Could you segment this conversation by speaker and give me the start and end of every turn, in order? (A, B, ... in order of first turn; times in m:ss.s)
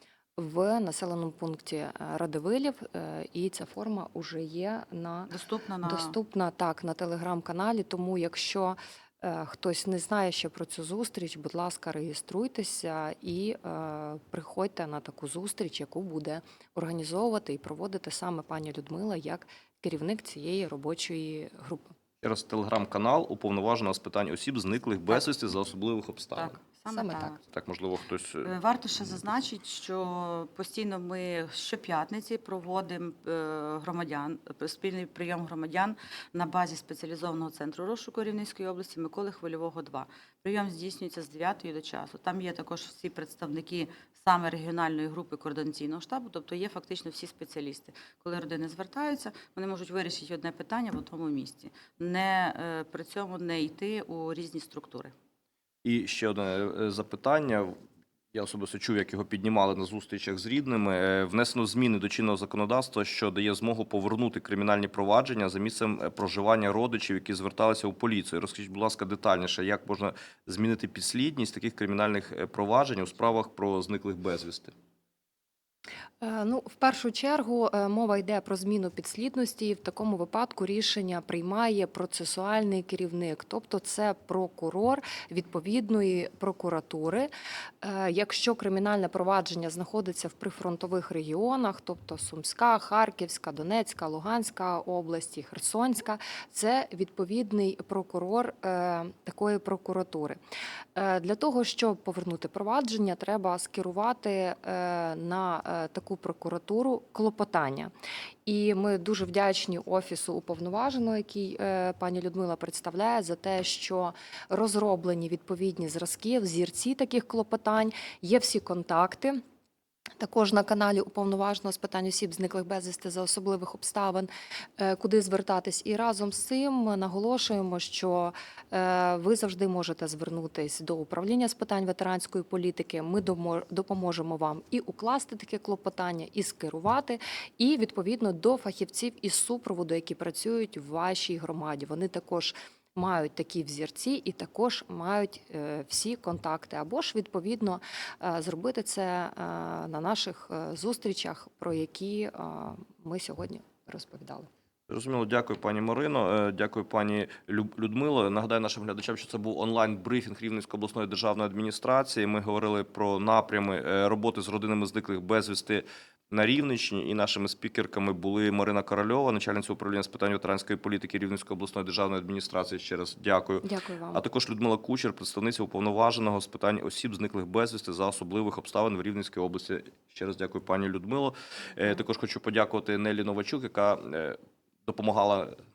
0:00.4-0:05.3 A
0:05.3-0:06.1 B
0:05.8-0:22.0 A
0:22.2-0:26.6 C
0:26.4-0:27.4 B
0:26.9-0:27.4 A
0:27.5-0:28.5 C
0:28.4-0:55.1 B
0:55.8-0:57.8 C
0:58.3-1:14.7 C
1:16.2-1:27.3 A
1:27.8-1:40.4 A
1:41.0-1:47.9 A
1:48.5-1:59.4 A
2:00.2-2:34.5 A
2:34.9-3:05.6 C
2:53.6-2:54.2 A